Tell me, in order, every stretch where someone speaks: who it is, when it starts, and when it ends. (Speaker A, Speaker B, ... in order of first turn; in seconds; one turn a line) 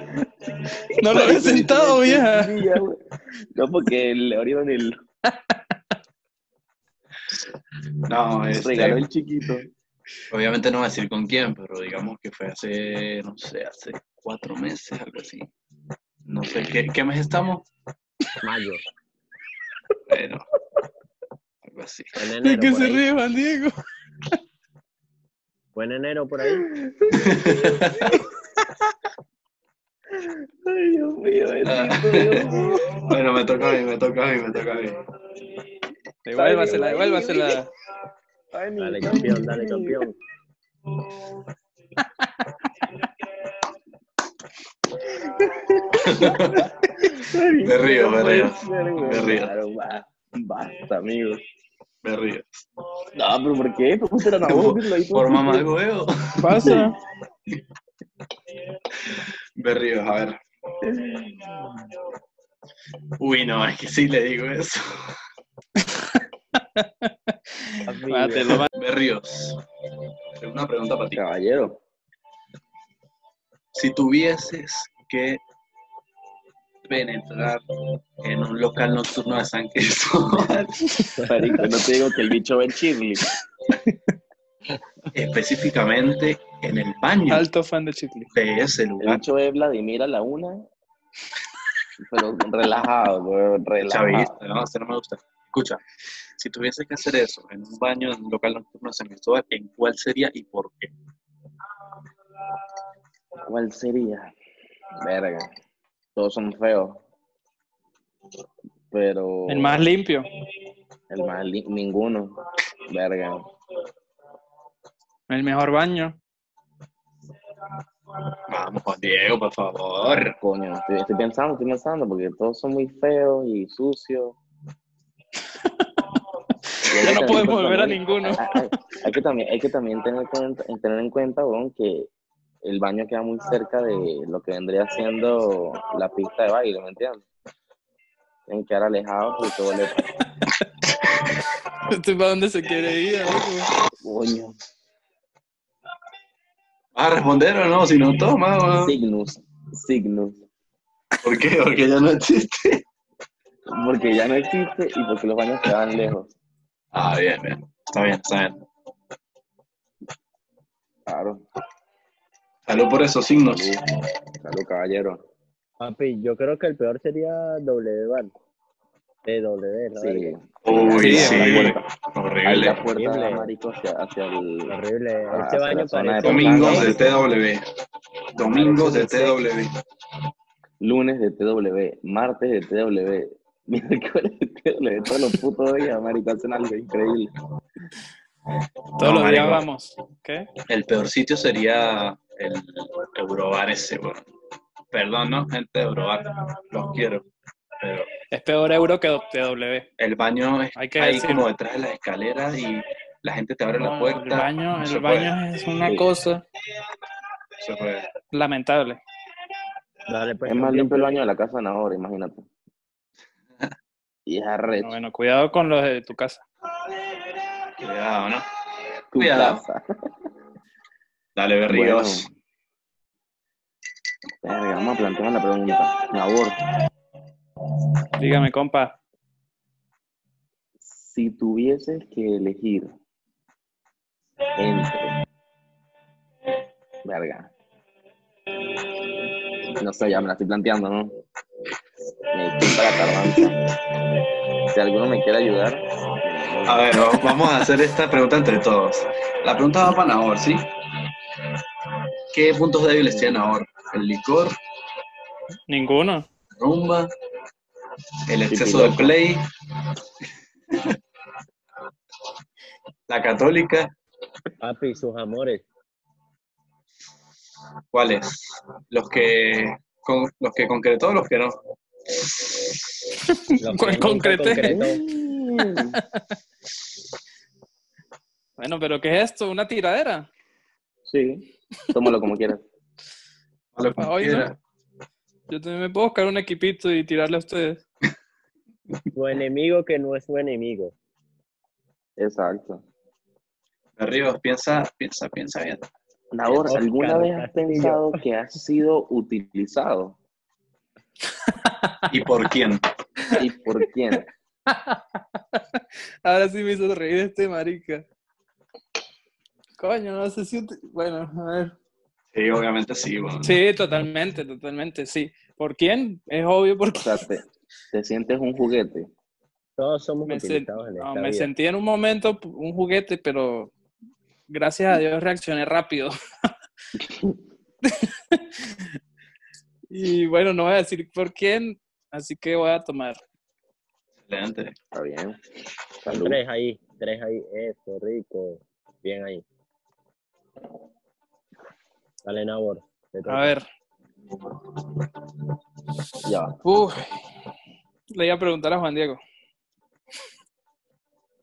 Speaker A: 0.9-5.0
Speaker B: 0.9-2.6
Speaker B: 5.3-5.6
Speaker C: 8.1-9.0
Speaker A: 8.5-9.7
Speaker C: 10.3-15.5
Speaker C: 16.2-17.6
Speaker D: 18.4-18.8
Speaker C: 20.1-20.4
Speaker C: 21.6-22.1
Speaker D: 22.2-23.0
Speaker B: 22.4-23.7
Speaker D: 25.7-26.7
Speaker A: 26.7-28.2
Speaker C: 27.1-28.2
Speaker A: 30.1-33.1
Speaker C: 31.6-35.0
Speaker B: 36.2-37.7
Speaker A: 36.3-37.6
Speaker A: 38.5-40.0
Speaker D: 38.8-40.1
Speaker A: 45.0-51.4
Speaker C: 45.9-46.9
Speaker C: 47.6-49.5
Speaker C: 52.0-52.6
Speaker A: 53.1-55.7
Speaker C: 54.4-56.8
Speaker B: 56.4-57.0
Speaker C: 59.0-60.4
Speaker A: 60.8-61.6
Speaker C: 63.2-65.1
Speaker B: 65.8-68.7
Speaker D: 67.8-68.7
Speaker C: 68.7-69.6
Speaker C: 70.4-71.2
Speaker A: 71.1-71.8
Speaker C: 73.7-75.4
Speaker C: 76.8-77.6
Speaker C: 78.2-81.2
Speaker A: 81.2-83.3
Speaker C: 85.1-87.4
Speaker B: 87.3-88.3
Speaker C: 88.3-89.2
Speaker A: 89.0-90.7
Speaker A: 92.0-94.4
Speaker C: 93.8-95.8
Speaker C: 96.4-100.9
Speaker A: 103.5-104.3
Speaker A: 105.0-105.5
Speaker A: 106.2-107.0
Speaker A: 108.9-109.9
Speaker B: 109.5-110.3
Speaker A: 111.1-113.5
Speaker B: 115.3-116.2
Speaker C: 118.5-120.4
Speaker A: 120.4-124.4
Speaker B: 125.6-125.9
Speaker B: 126.7-128.6
Speaker A: 126.9-132.1
Speaker A: 132.6-137.2
Speaker A: 138.5-140.1
Speaker B: 141.9-143.7
Speaker A: 144.0-144.6
Speaker C: 146.9-148.9
Speaker A: 148.8-150.4
Speaker C: 151.2-152.8
Speaker A: 153.7-156.3
Speaker C: 156.9-158.7
Speaker A: 161.1-161.4
Speaker C: 162.7-163.8
Speaker A: 163.4-163.8
Speaker A: 164.4-165.2
Speaker D: 165.8-168.3
Speaker D: 169.2-170.3
Speaker A: 169.9-171.8
Speaker C: 170.6-172.8
Speaker B: 170.9-171.8
Speaker A: 172.4-174.8
Speaker D: 172.9-173.5
Speaker D: 174.7-177.0
Speaker A: 175.3-177.1
Speaker C: 176.2-177.6
Speaker C: 178.3-179.7
Speaker D: 178.4-179.4
Speaker A: 180.8-187.3
Speaker C: 189.0-189.6
Speaker B: 189.0-190.5
Speaker C: 190.7-194.3
Speaker C: 194.9-197.2
Speaker C: 197.8-198.1
Speaker B: 198.3-199.9
Speaker C: 200.0-205.3
Speaker B: 200.8-201.4
Speaker B: 203.8-206.4
Speaker C: 207.6-208.1
Speaker B: 208.3-209.0
Speaker D: 210.1-211.2
Speaker A: 210.4-212.5
Speaker A: 214.2-214.9
Speaker B: 214.8-216.4
Speaker C: 217.7-218.4
Speaker A: 219.1-219.8
Speaker C: 219.1-219.6
Speaker C: 221.3-222.3
Speaker A: 221.7-222.3
Speaker A: 224.4-226.6
Speaker B: 228.2-229.0
Speaker A: 230.8-232.9
Speaker A: 234.6-235.1
Speaker A: 237.0-237.5
Speaker A: 239.8-241.1
Speaker A: 242.3-243.6
Speaker C: 242.6-243.4
Speaker A: 244.7-246.9
Speaker C: 246.7-250.7
Speaker C: 252.3-254.6
Speaker B: 255.7-256.2
Speaker C: 256.6-257.1
Speaker C: 258.3-259.4
Speaker A: 258.5-259.1
Speaker C: 263.1-263.9
Speaker D: 264.6-265.6
Speaker C: 267.9-271.6
Speaker C: 272.1-272.7
Speaker B: 273.3-274.9
Speaker D: 273.6-275.0
Speaker A: 274.6-276.0
Speaker B: 275.9-276.2
Speaker B: 278.6-280.3
Speaker A: 281.1-282.6
Speaker C: 283.7-284.6
Speaker B: 284.0-284.5
Speaker B: 285.5-287.8
Speaker D: 289.1-290.9
Speaker A: 292.2-292.8
Speaker C: 294.0-295.9
Speaker A: 296.3-300.2
Speaker D: 296.6-298.2
Speaker B: 301.6-302.0
Speaker C: 302.1-302.8
Speaker A: 303.3-304.3
Speaker B: 304.7-308.0
Speaker B: 309.8-311.7
Speaker C: 312.3-313.6
Speaker B: 313.4-317.2
Speaker A: 316.9-319.1
Speaker D: 319.8-321.5
Speaker B: 320.3-323.7
Speaker B: 324.5-326.1
Speaker A: 327.0-327.4
Speaker B: 327.8-328.9
Speaker B: 329.9-333.2
Speaker C: 334.2-334.8
Speaker A: 334.9-335.4
Speaker A: 336.0-336.4
Speaker D: 336.1-339.4
Speaker D: 342.2-343.5
Speaker B: 343.3-343.6
Speaker A: 346.2-346.6
Speaker B: 346.6-347.0
Speaker B: 348.1-349.2